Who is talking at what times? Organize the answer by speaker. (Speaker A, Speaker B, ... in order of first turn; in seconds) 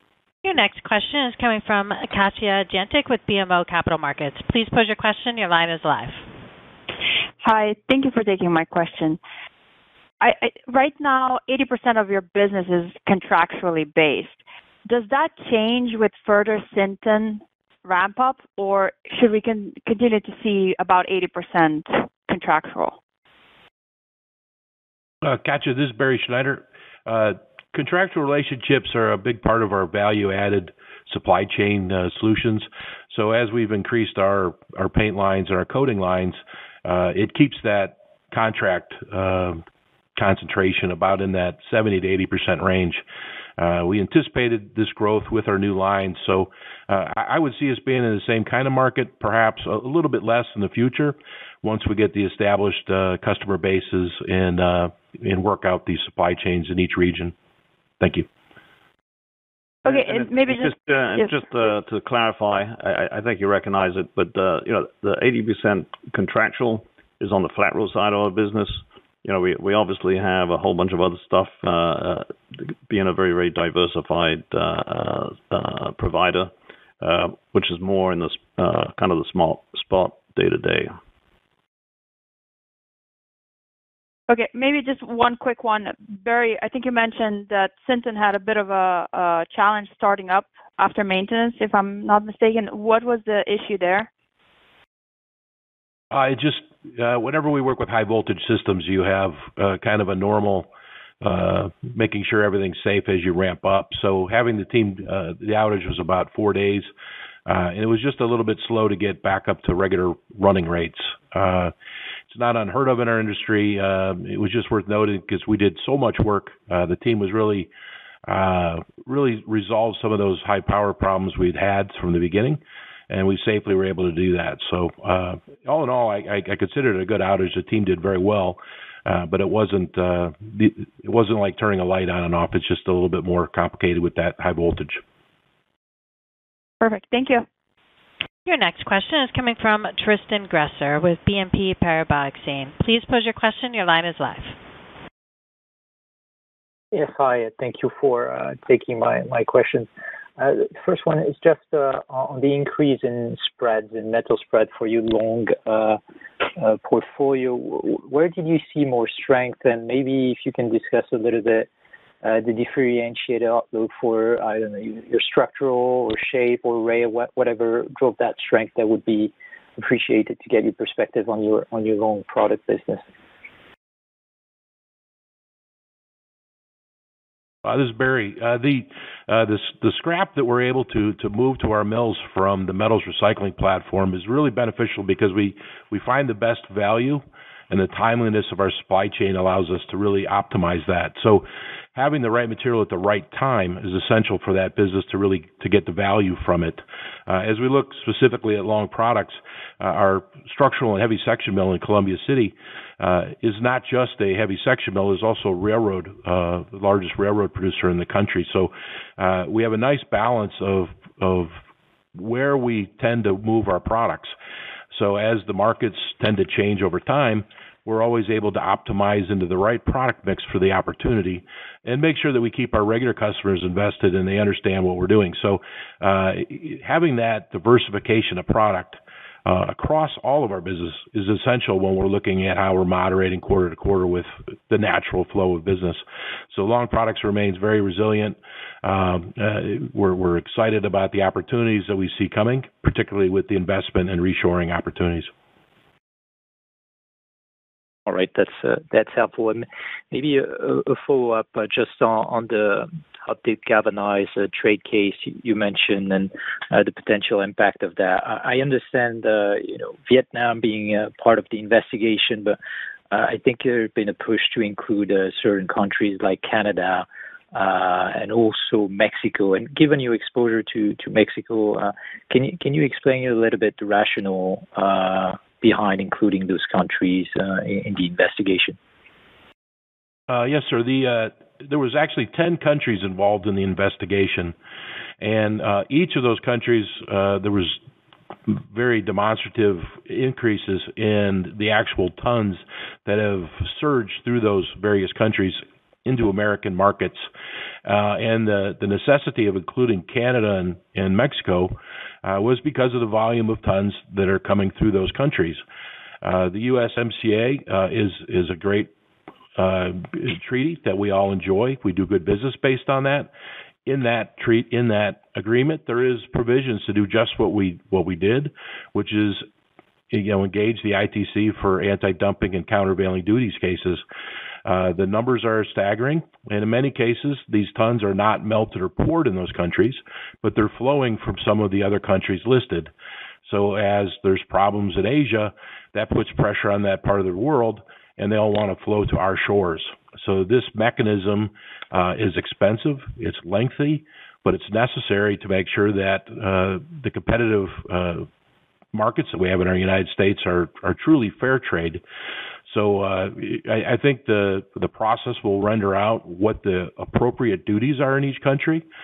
Speaker A: 0.4-6.2, 138.4-144.6
Speaker B: 7.4-9.2, 10.2-23.0, 59.9-61.3, 84.3-94.1, 136.8-137.5
Speaker C: 25.2-39.6, 40.2-43.0, 43.6-57.3, 58.0-58.3, 96.1-100.7, 101.2-106.9, 107.5-111.7, 112.3-117.7, 118.3-135.0, 177.7-211.6, 212.2-214.3, 214.9-245.3, 280.3-284.6, 285.2-287.8, 288.5-297.3, 297.9-305.6, 306.2-308.9, 309.6-313.3, 313.9-319.5, 320.1-324.0, 324.6-332.9, 333.4-348.3, 348.9-352.0, 352.7-358.9
Speaker D: 59.9-81.0
Speaker E: 146.9-156.0, 156.6-161.7, 162.2-173.1, 248.1-262.6, 263.1-278.8